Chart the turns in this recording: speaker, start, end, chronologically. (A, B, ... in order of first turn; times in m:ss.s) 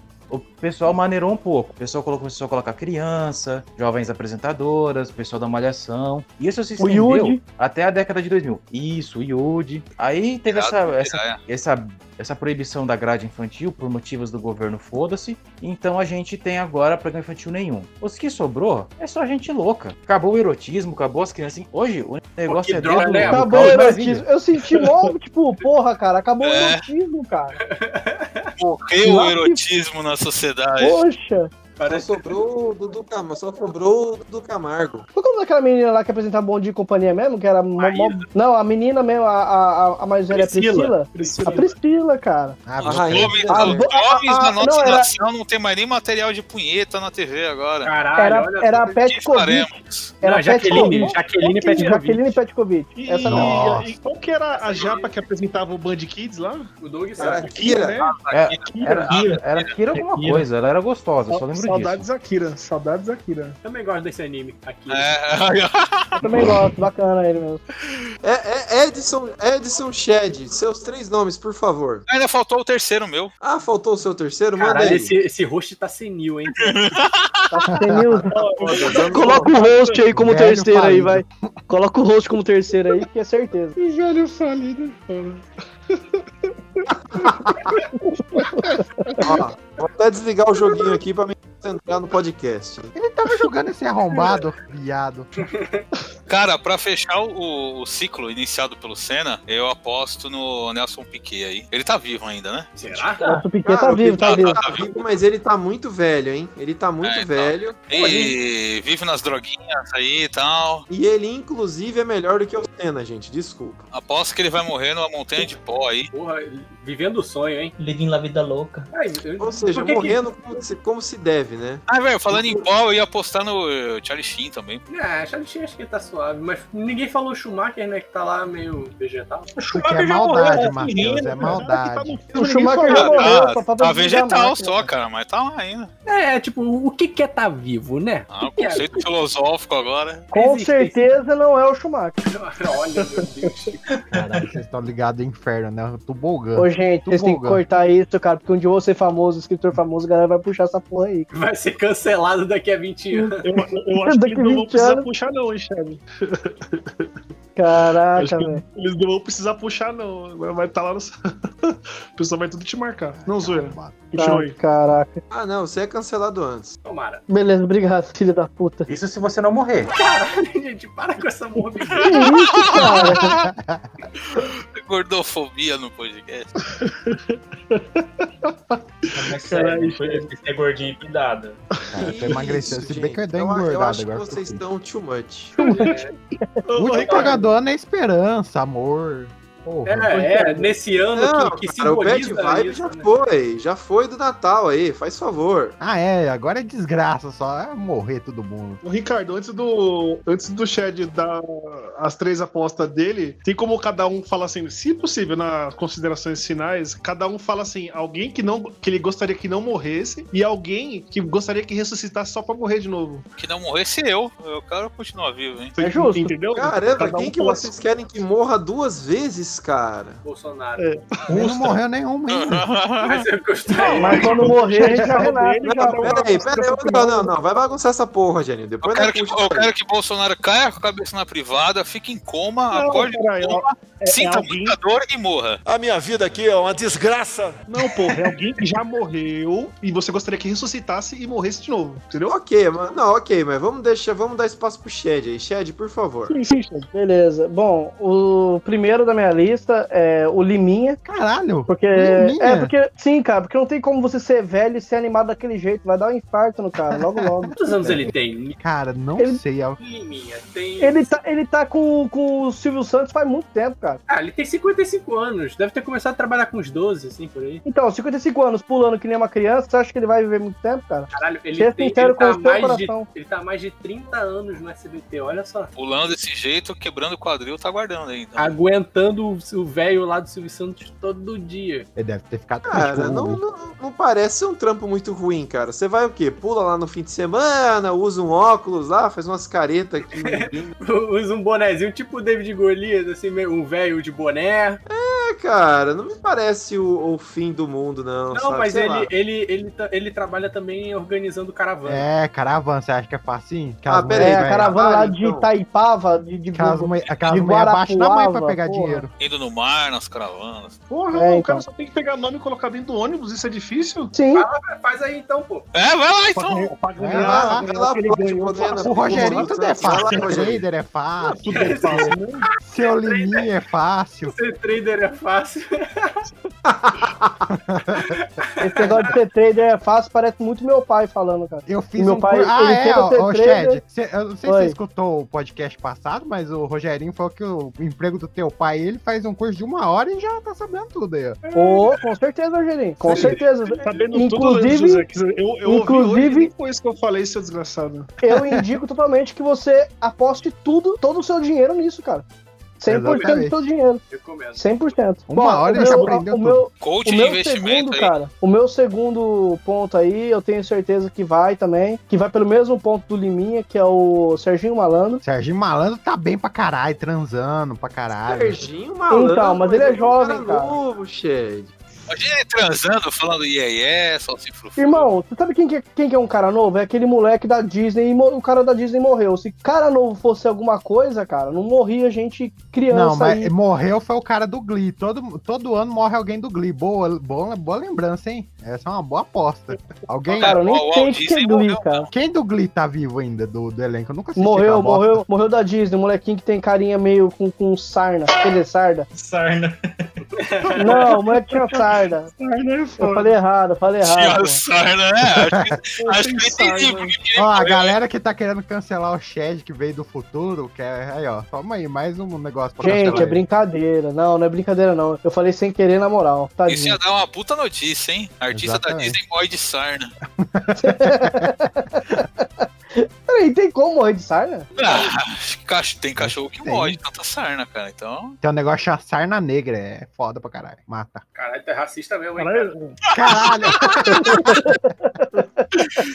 0:00.3-0:24.2 A
0:06.8-0:07.4 B
0:10.5-0:11.4 C
0:22.5-0:23.8 D
0:23.3-0:27.6 B
0:24.8-0:25.0 E
0:26.4-0:26.8 C
0:27.6-0:28.5 D
0:28.6-0:31.0 C
0:29.0-0:29.6 B
0:30.8-0:31.5 B
0:31.8-0:32.2 D
0:31.8-0:35.1 F
0:35.2-0:42.6 B
0:37.8-0:38.3 D
0:40.3-0:41.6 D
0:41.1-0:41.7 E
0:42.7-0:43.5 G
0:42.8-0:47.9 C
0:42.8-0:43.9 F
0:43.5-0:45.1 B
0:47.8-0:49.0 D
0:48.2-0:49.7 B
0:49.0-0:50.2 C
0:50.2-0:52.4 D
0:50.2-0:53.7 B
0:50.7-0:51.8 E
0:53.0-0:59.2 E
0:53.3-0:53.9 G
0:54.5-0:55.1 D
0:56.8-0:57.7 D
0:57.2-0:58.0 F
0:58.0-0:59.8 C
0:58.3-1:02.1 A
1:00.0-1:00.4 H
1:01.3-1:03.6 E
1:03.6-1:05.2 D
1:04.9-1:06.5 C
1:06.2-1:07.6 B
1:08.2-1:12.0 F
1:12.1-1:13.3 C
1:13.4-1:15.1 F
1:14.6-1:17.0 D
1:16.6-1:17.5 C
1:17.5-1:23.8 B
1:17.8-1:18.2 G
1:18.3-1:20.0 E
1:18.6-1:19.5 F
1:20.1-1:21.3 G
1:23.8-1:25.4 E
1:28.3-1:28.8 E
1:28.4-1:28.7 B
1:29.2-1:32.9 F
1:33.0-1:35.3 G
1:35.4-1:35.8 D
1:36.3-1:43.0 C
1:42.8-1:43.4 D
1:43.2-1:44.6 B
1:43.6-1:47.9 F
1:44.2-1:44.9 C
1:47.0-1:50.8 C
1:47.9-1:48.4 D
1:50.9-1:53.8 F
1:53.9-1:56.1 C
1:56.1-1:57.7 D
1:57.8-1:58.9 H
1:58.9-2:00.2 D
1:59.4-2:02.6 F
2:01.9-2:04.8 C
2:04.9-2:09.5 D
2:09.6-2:11.4 H
2:09.7-2:12.2 G
2:10.6-2:13.4 E
2:12.3-2:14.9 B
2:12.9-2:15.9 C
2:16.1-2:19.1 D
2:18.3-2:20.3 C
2:20.3-2:21.2 D
2:20.3-2:22.2 B
2:22.3-2:23.8 D
2:24.2-2:27.6 G
2:26.6-2:31.3 B
2:31.3-2:33.4 D
2:33.4-2:36.8 E
2:34.0-2:35.1 B
2:37.6-2:38.6 B
2:38.1-2:41.1 E
2:41.7-2:44.6 E
2:43.1-2:44.0 G
2:44.2-2:45.2 B
2:45.3-2:46.8 F
2:46.8-2:47.2 D
2:47.3-2:48.9 B
2:48.9-2:49.9 A
2:49.9-2:52.2 D
2:52.0-2:53.3 B
2:52.2-2:53.2 C
2:52.7-2:53.9 G
2:54.3-2:56.5 C
2:56.8-2:57.2 E
2:58.5-3:00.3 E
2:59.2-3:01.6 H
3:01.8-3:02.4 E
3:01.9-3:04.6 G
3:01.9-3:05.6 F
3:05.6-3:06.0 E
3:05.6-3:06.1 D
3:06.7-3:07.5 E
3:06.8-3:10.7 G
3:06.9-3:07.4 D
3:09.9-3:13.1 D
3:11.1-3:15.8 F
3:15.8-3:18.8 G
3:18.8-3:33.2 E
3:33.4-3:35.8 C
3:35.8-3:37.7 E
3:35.8-3:36.3 B
3:36.5-3:40.2 F
3:40.2-3:41.7 D
3:40.8-3:41.2 E
3:41.3-3:42.7 G
3:42.3-3:43.3 C
3:43.0-3:44.4 D
3:43.8-3:47.3 E
3:44.0-3:46.3 B
3:45.6-3:49.7 F
3:48.8-3:55.6 C
3:52.7-3:54.8 E
3:55.6-3:57.6 I
3:57.7-4:02.4 E
4:02.3-4:06.4 F
4:06.3-4:06.9 E
4:06.9-4:11.0 B
4:11.0-4:12.7 G
4:11.7-4:17.6 B
4:16.9-4:19.8 G
4:17.6-4:18.6 D
4:19.8-4:21.2 D
4:20.8-4:24.0 B
4:24.1-4:27.6 D
4:27.6-4:33.1 B
4:31.1-4:35.7 D
4:35.8-4:38.6 C
4:38.4-4:41.9 D
4:42.0-4:43.4 G
4:42.7-4:50.7 F
4:50.2-4:54.8 D
4:54.9-4:59.1 F
4:58.3-5:02.1 D
5:01.8-5:04.8 G
5:03.9-5:05.5 F
5:04.2-5:09.0 B
5:06.5-5:09.1 G
5:09.2-5:10.8 C
5:10.9-5:14.1 E
5:11.1-5:11.6 B
5:14.1-5:14.5 B
5:14.3-5:15.7 D
5:15.7-5:16.7 C
5:16.4-5:20.4 E
5:17.0-5:17.7 G
5:17.1-5:20.6 F
5:18.8-5:22.1 G
5:21.3-5:22.4 E
5:21.5-5:22.2 D
5:22.7-5:24.4 G
5:22.8-5:23.5 D
5:24.2-5:26.2 D
5:26.7-5:27.4 F
5:27.7-5:28.2 G
5:28.1-5:28.9 D
5:28.6-5:33.8 B
5:31.7-5:41.4 G
5:34.4-5:34.8 B
5:41.6-5:45.1 B
5:43.0-5:48.1 E
5:45.6-5:46.5 B
5:48.2-5:52.2 B
5:48.3-5:48.7 G
5:52.8-5:54.0 B
5:52.9-5:53.6 G
5:53.0-5:53.4 D
5:54.1-5:54.7 D
5:54.6-6:05.2 B
5:55.3-5:56.6 G
5:55.7-5:56.1 E
5:56.8-5:58.1 C
6:05.2-6:08.7 G
6:08.2-6:11.7 F
6:09.1-6:10.8 B
6:12.1-6:15.1 C
6:14.8-6:23.5 B
6:22.9-6:30.6 G
6:30.4-6:32.1 C
6:30.4-6:32.1 B
6:32.1-6:35.2 G
6:34.4-6:39.1 B
6:39.1-6:40.1 H
6:40.4-6:41.0 D
6:40.8-6:42.3 B
6:40.8-6:41.8 E
6:42.4-6:43.4 E
6:43.0-6:44.6 B
6:44.0-6:48.0 C
6:45.4-6:45.7 G
6:46.0-6:47.2 E
6:47.4-6:53.4 G
6:52.8-6:57.0 B
6:52.9-6:53.3 E
6:56.7-7:00.1 C
6:58.5-6:59.2 G
7:00.4-7:01.5 G
7:00.8-7:04.7 B
7:04.8-7:08.4 C
7:06.2-7:07.0 G
7:08.4-7:11.2 G
7:11.4-7:12.7 D
7:12.4-7:13.0 E
7:13.1-7:14.5 G
7:13.2-7:14.0 C
7:14.3-7:14.6 B